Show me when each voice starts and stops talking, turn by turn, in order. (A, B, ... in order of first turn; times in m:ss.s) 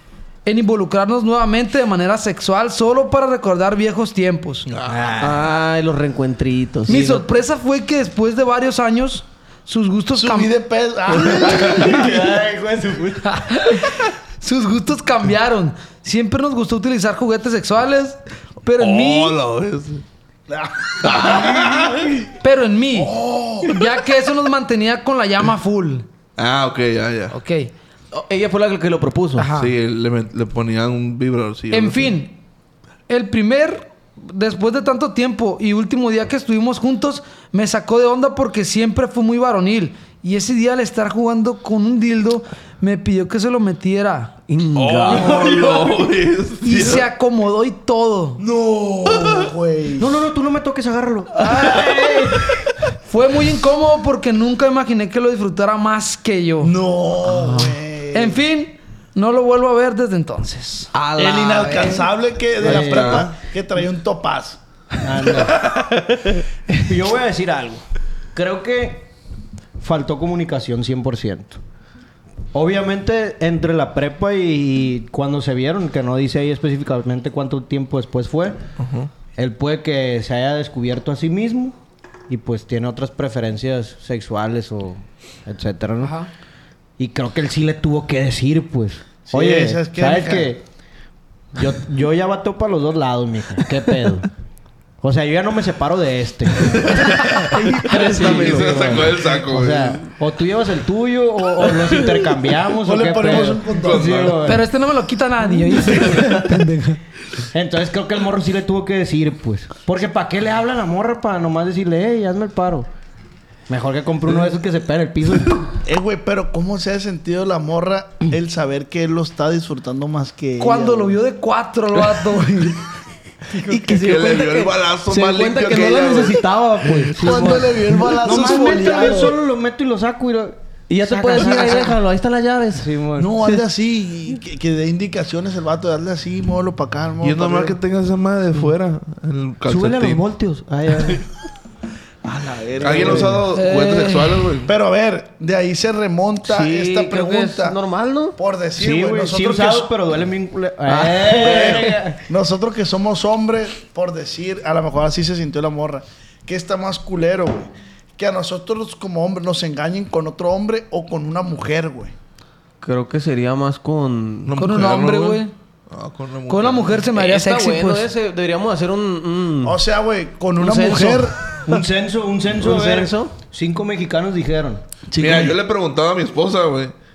0:00.5-0:04.7 A
0:04.7-0:05.1 B
0:04.9-0:05.4 C
0:05.2-0:07.2 D
0:06.9-0:10.5 A
0:10.1-0:12.3 E
0:11.7-0:13.4 C
0:13.3-0:19.4 A
0:18.8-0:20.0 B
0:20.5-0:21.8 E
0:21.0-0:22.0 B
0:22.4-0:26.0 A
0:22.9-0:23.8 E
0:26.4-0:27.4 B
0:27.3-0:27.7 A
0:28.1-0:29.5 D
0:29.4-0:29.7 A
0:29.5-0:32.2 B
0:31.7-0:32.4 A
0:33.1-0:44.4 A
0:44.5-0:45.4 D
0:44.8-0:47.1 B
0:45.1-0:46.0 C
0:46.6-0:48.4 A
0:48.4-0:50.2 E
0:50.0-0:52.5 C
0:51.4-0:52.3 A
0:53.0-0:56.8 A
0:56.6-0:58.4 E
0:58.1-1:00.9 A
1:00.9-1:02.1 D
1:01.2-1:04.6 E
1:02.6-1:03.3 C
1:02.7-1:03.3 B
1:05.0-1:05.6 C
1:06.7-1:07.8 C
1:08.4-1:09.1 C
1:09.8-1:11.6 C
1:12.5-1:18.6 C
1:18.8-1:19.1 B
1:19.4-1:21.8 C
1:22.3-1:26.2 C
1:26.0-1:26.3 A
1:27.0-1:30.6 C
1:29.3-1:30.5 E
1:31.5-1:34.3 C
1:35.0-1:44.6 C
1:36.9-1:37.5 B
1:38.0-1:38.9 D
1:38.0-1:40.1 B
1:42.8-1:44.4 E
1:43.8-1:44.6 B
1:44.4-1:47.0 A
1:47.5-1:52.9 C
1:53.7-1:55.7 C
1:55.8-2:01.2 E
2:00.6-2:02.8 A
2:03.6-2:07.3 D
2:03.9-2:07.0 B
2:07.0-2:12.0 C
2:07.2-2:09.4 E
2:10.9-2:12.9 D
2:12.8-2:13.4 C
2:13.2-2:17.8 E
2:17.2-2:20.2 B
2:19.7-2:21.3 C
2:22.2-2:23.5 E
2:22.8-2:24.7 B
2:23.5-2:24.4 A
2:24.6-2:27.8 E
2:26.5-2:28.4 D
2:28.4-2:29.9 E
2:28.8-2:32.2 C
2:30.9-2:32.0 D
2:31.3-2:42.1 E
2:42.8-2:44.5 D
2:44.4-2:47.0 B
2:44.6-2:45.5 A
2:46.5-2:48.1 A
2:47.1-2:49.8 D
2:49.6-2:51.4 E
2:50.6-2:51.3 D
2:51.7-2:54.8 C
2:52.6-2:53.3 D
2:55.1-2:55.6 E
2:55.2-2:57.0 B